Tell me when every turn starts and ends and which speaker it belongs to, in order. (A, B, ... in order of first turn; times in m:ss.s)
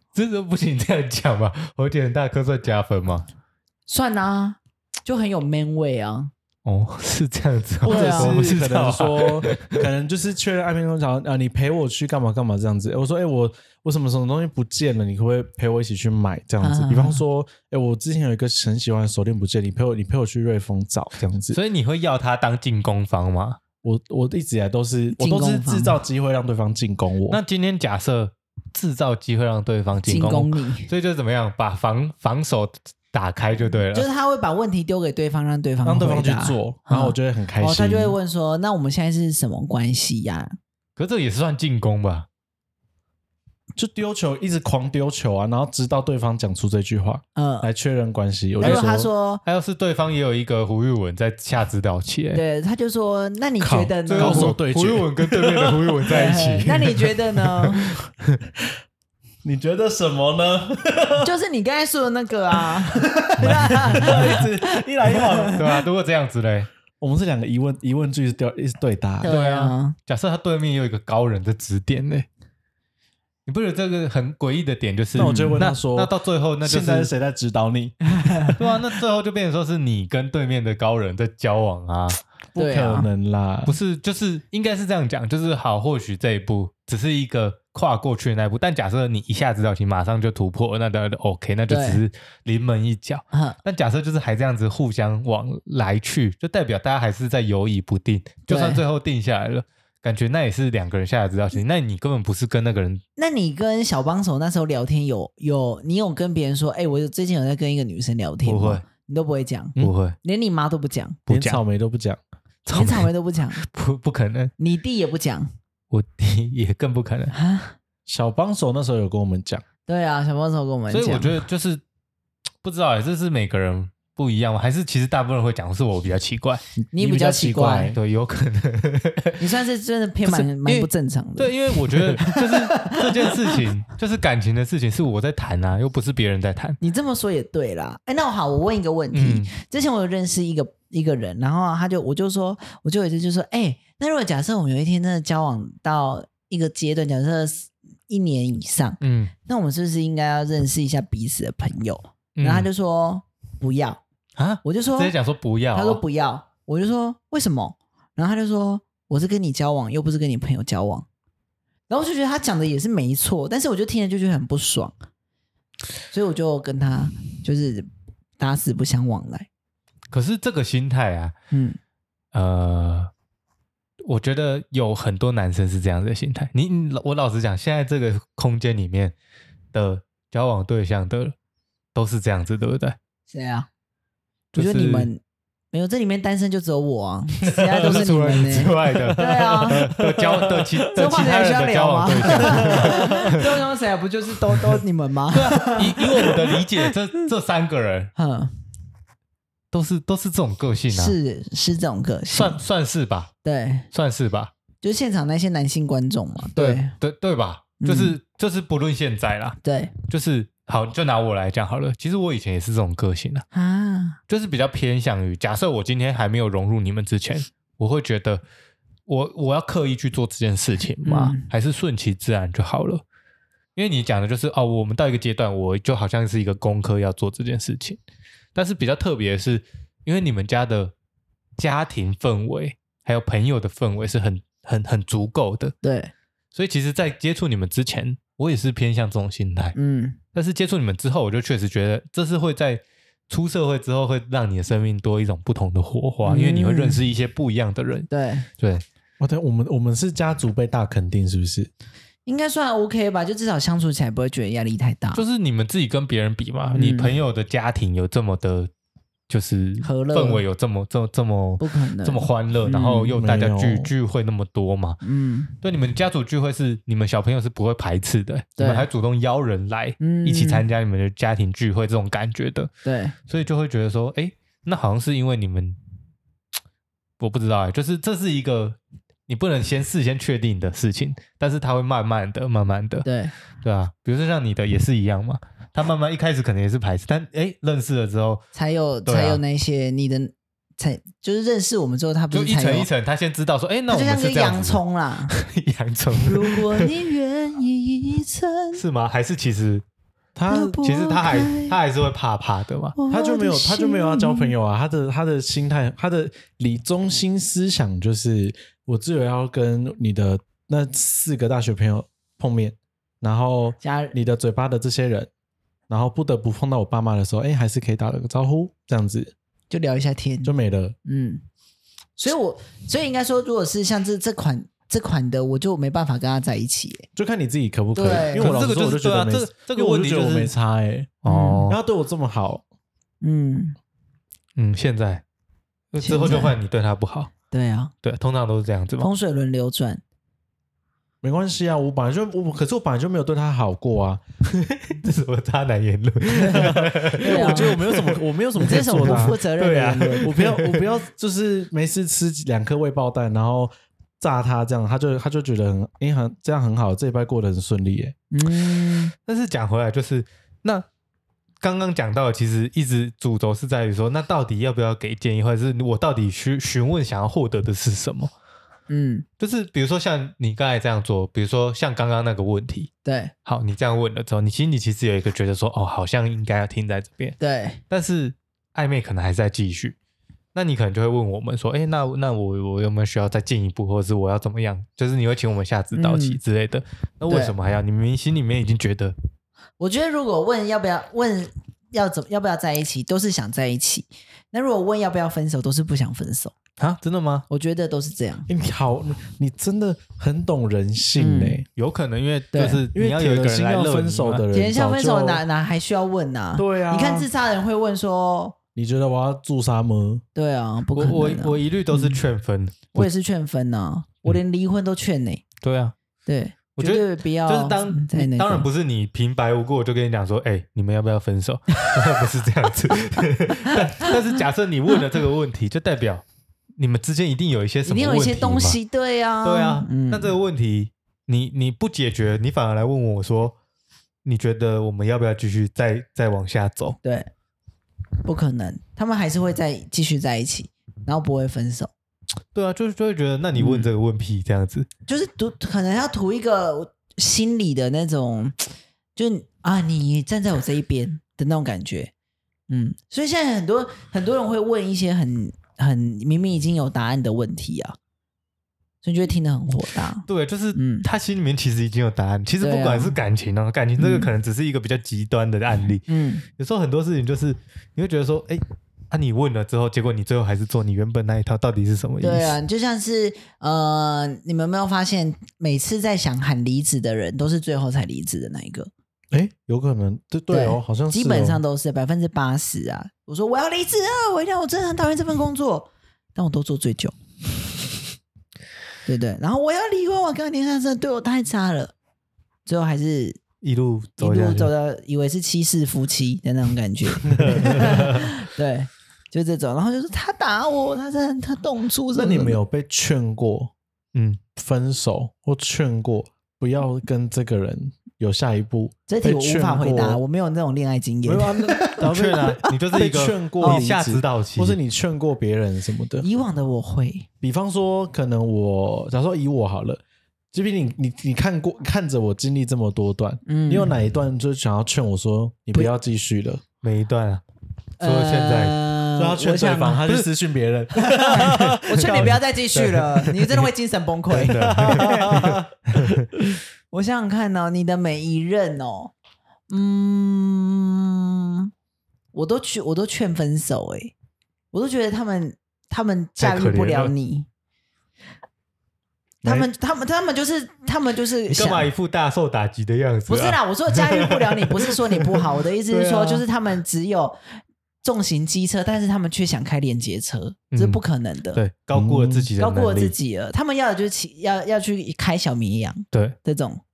0:00.1-0:03.3 A
0:03.9-0:06.3 B
0:06.6-0:09.9 A
0:07.8-0:21.6 C
0:07.9-0:08.4 B
0:16.6-0:17.2 B
0:21.5-0:23.6 A
0:23.8-0:27.4 C
0:25.2-0:26.0 B
0:27.3-0:34.1 A
0:30.0-0:30.9 B
0:33.9-0:40.6 B
0:35.8-0:38.2 C
0:41.0-0:42.3 A
0:43.8-0:49.1 C
0:47.4-0:47.7 B
0:48.6-0:49.4 B
0:48.6-0:48.9 A
0:49.4-0:52.4 A
0:52.3-0:54.6 B
0:53.6-0:56.4 C
0:54.1-0:58.3 A
0:56.1-0:57.9 B
0:59.4-1:01.3 C
1:01.2-1:05.6 B
1:02.7-1:05.7 C
1:03.4-1:04.4 A
1:05.5-1:06.7 A
1:07.0-1:09.3 C
1:09.2-1:10.0 B
1:09.2-1:12.3 A
1:13.5-1:17.1 A
1:15.2-1:16.1 C
1:15.2-1:15.6 B
1:16.6-1:18.6 C
1:18.2-1:18.6 B
1:18.6-1:22.2 A
1:22.5-1:23.8 C
1:22.6-1:23.1 B
1:23.7-1:43.0 A
1:31.7-1:32.0 B
1:33.3-1:33.6 B
1:38.5-1:38.8 B
1:43.2-1:51.2 B
1:48.4-1:48.8 A
1:49.8-1:50.2 A
1:51.3-1:51.6 A
1:51.3-1:52.2 C
1:52.7-1:54.5 A
1:52.7-1:53.6 B
1:54.6-1:55.5 B
1:55.9-1:57.3 A
1:57.3-1:57.8 B
1:58.1-1:59.6 C
1:59.9-2:01.4 B
2:00.9-2:01.8 A
2:02.6-2:06.6 A
2:06.8-2:08.0 C
2:06.9-2:08.0 B
2:07.9-2:09.4 A
2:09.4-2:13.6 B
2:10.3-2:16.8 A
2:16.8-2:34.0 B
2:19.1-2:19.5 A
2:29.0-2:29.3 A
2:32.4-2:32.7 A
2:34.4-2:36.0 A
2:34.6-2:35.1 B
2:35.7-2:41.1 B
2:41.9-2:45.0 B
2:46.1-2:47.9 B
2:48.4-2:49.5 B
2:50.1-2:51.3 A
2:51.5-2:51.8 B
2:52.3-2:53.1 A
2:54.0-2:59.1 A
2:59.7-3:01.4 A
3:02.0-3:03.0 A
3:03.3-3:03.7 B
3:04.5-3:05.1 A
3:04.6-3:05.2 B
3:05.7-3:09.8 B
3:07.5-3:13.5 A
3:09.0-3:10.8 C
3:10.9-3:16.6 B
3:12.4-3:13.4 C
3:15.3-3:18.1 A
3:18.2-3:18.5 B
3:19.7-3:21.2 A
3:20.9-3:22.6 B
3:22.3-3:23.3 A
3:23.4-3:23.9 B
3:23.9-3:24.5 A
3:24.8-3:26.9 B
3:26.6-3:33.4 A
3:27.8-3:28.2 B
3:29.6-3:29.9 B
3:33.5-3:34.2 B
3:34.3-3:38.4 A
3:39.1-3:43.0 A
3:41.0-3:41.5 B
3:43.8-3:48.0 A
3:48.6-3:50.9 A
3:51.6-3:55.8 A
3:55.8-3:56.1 B
3:56.5-3:59.8 A
3:59.8-4:00.2 B
4:00.3-4:08.8 A
4:06.2-4:07.0 B
4:08.1-4:08.5 B
4:09.2-4:11.7 C
4:12.3-4:15.2 B
4:15.1-4:18.7 A
4:16.7-4:17.2 B
4:19.3-4:25.0 A
4:19.8-4:20.4 B
4:21.6-4:23.2 B
4:23.2-4:23.9 C
4:25.0-4:25.5 B
4:25.6-4:32.7 A
4:28.6-4:28.9 B
4:30.0-4:30.6 B
4:32.8-4:33.2 B
4:33.3-4:35.8 A
4:37.2-4:38.8 A
4:39.3-4:43.1 A
4:43.0-4:43.3 B
4:43.6-4:48.4 A
4:48.6-4:52.9 B
4:49.1-4:49.4 A
4:52.3-4:56.9 A
4:53.9-4:55.4 B
4:56.2-4:58.8 B
4:58.8-4:59.8 A
5:00.4-5:00.8 C
5:00.5-5:01.8 B
5:00.7-5:03.0 A
5:03.0-5:04.6 B
5:03.1-5:15.3 C
5:13.8-5:14.2 B
5:15.9-5:19.3 C
5:19.7-5:20.5 B
5:20.4-5:21.0 C
5:21.0-5:21.4 B
5:22.2-5:27.1 B
5:27.2-5:31.2 C
5:28.0-5:28.5 B
5:28.2-5:30.5 A
5:31.2-5:31.8 A
5:31.2-5:31.7 B
5:31.7-5:32.6 C
5:33.2-5:33.8 B
5:34.6-5:35.2 A
5:35.9-5:37.3 A
5:36.0-5:36.6 B
5:37.5-5:37.9 B
5:38.0-5:39.1 A
5:39.0-5:40.0 B
5:41.2-5:44.2 C
5:44.5-5:48.2 A
5:46.4-5:46.7 B
5:46.5-5:49.4 C
5:47.2-5:47.8 B
5:48.6-5:50.3 B
5:48.8-5:50.9 A
5:50.2-5:58.2 C
5:58.3-5:59.1 B
5:59.2-6:00.9 A
6:01.6-6:08.3 A
6:08.9-6:09.2 B
6:09.4-6:12.9 A
6:13.0-6:13.3 B
6:13.4-6:17.4 A
6:17.4-6:17.8 B
6:17.9-6:20.0 A
6:20.6-6:29.2 A
6:25.9-6:26.4 B
6:27.3-6:27.5 B
6:29.8-6:36.6 B
6:36.8-6:37.4 A
6:37.5-6:38.5 B
6:38.5-6:41.7 C
6:41.2-6:41.6 B
6:41.8-6:44.4 A
6:42.5-6:42.8 B
6:42.9-6:45.4 C
6:44.5-6:48.6 B
6:46.6-6:47.3 C
6:48.8-6:50.2 C
6:50.4-6:52.2 B
6:51.0-6:53.1 A
6:52.9-6:55.4 B
6:55.6-6:55.9 A
6:56.3-6:58.7 B
6:56.8-7:06.2 A
7:03.7-7:04.1 B
7:06.8-7:08.8 A
7:07.9-7:10.4 B
7:09.4-7:13.6 A
7:14.2-7:17.0 A
7:17.0-7:17.3 B
7:18.2-7:21.9 B
7:22.5-7:24.9 A
7:23.6-7:23.9 B
7:25.1-7:32.1 B
7:32.7-7:38.0 B
7:39.0-7:41.1 B
7:40.3-7:46.0 A
7:42.6-7:43.2 B
7:44.0-7:44.3 B
7:46.1-7:46.4 B
7:46.6-7:52.6 A
7:52.2-7:58.9 B
7:59.3-8:01.6 C
8:00.5-8:07.2 B
8:09.1-8:11.9 B
8:12.7-8:13.4 B
8:13.6-8:14.7 A
8:14.2-8:22.6 B
8:17.2-8:18.0 C
8:17.7-8:18.2 A
8:22.1-8:23.7 C
8:24.1-8:24.4 A
8:24.6-8:30.2 C
8:29.1-8:32.0 B
8:31.2-8:36.3 C
8:32.0-8:34.8 A
8:33.6-8:33.9 B
8:36.2-8:37.3 B
8:37.4-8:40.0 C
8:40.5-8:46.6 C
8:43.5-8:44.0 B
8:46.8-8:47.4 A
8:48.0-8:50.1 B
8:48.0-8:48.8 A
8:49.2-8:52.3 C
8:51.0-8:55.4 B
8:51.5-8:53.7 A
8:54.3-8:56.3 A
8:54.4-8:56.1 C
8:56.9-8:59.1 B
8:59.7-9:01.7 B
9:02.3-9:04.1 B
9:04.7-9:07.5 B
9:06.4-9:07.1 A
9:09.4-9:11.9 B
9:11.5-9:15.2 A
9:13.3-9:17.4 B
9:15.9-9:16.4 A
9:18.0-9:21.6 B
9:20.7-9:21.0 A
9:21.5-9:23.2 A
9:21.9-9:22.5 C
9:22.6-9:26.8 B